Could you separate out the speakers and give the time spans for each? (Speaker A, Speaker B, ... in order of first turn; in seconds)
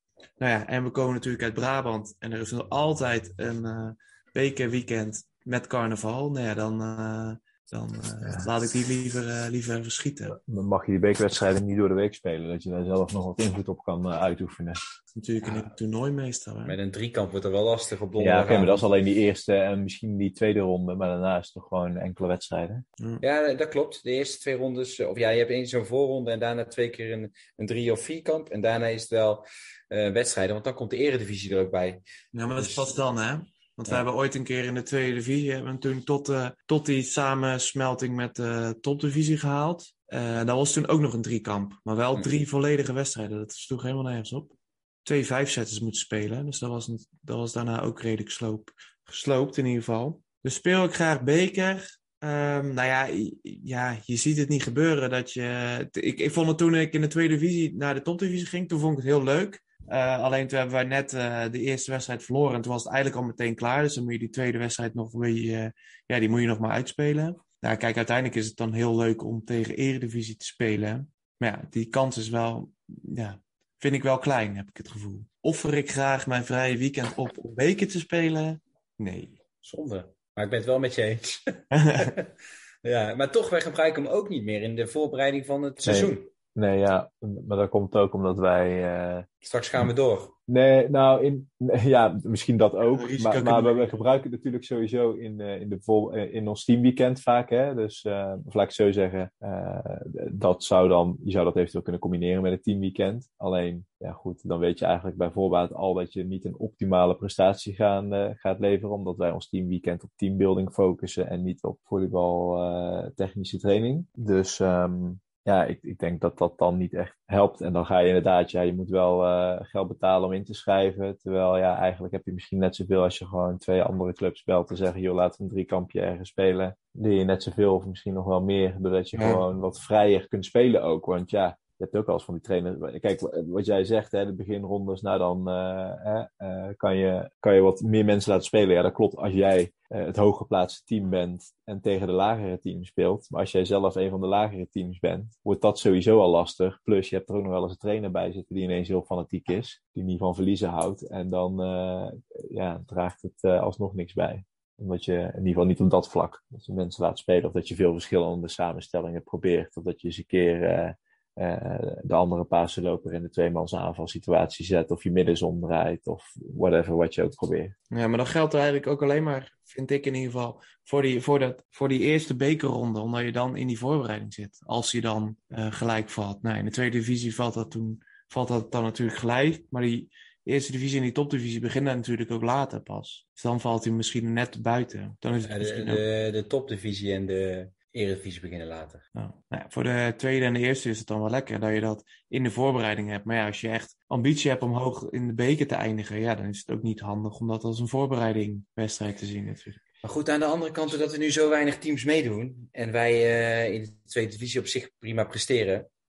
Speaker A: 0.4-10.4, 15.1-16.8, 32.3-79.4, 81.7-82.1, 92.9-94.0, 129.1-129.4, 167.9-186.0, 189.2-199.8
Speaker B: 10.3-14.8, 18.2-22.8, 85.8-89.3, 90.5-167.7
Speaker C: 16.6-18.9, 23.2-32.0, 32.5-32.9, 79.6-82.3, 82.8-86.3, 89.4-90.3, 185.4-189.0, 200.0-205.9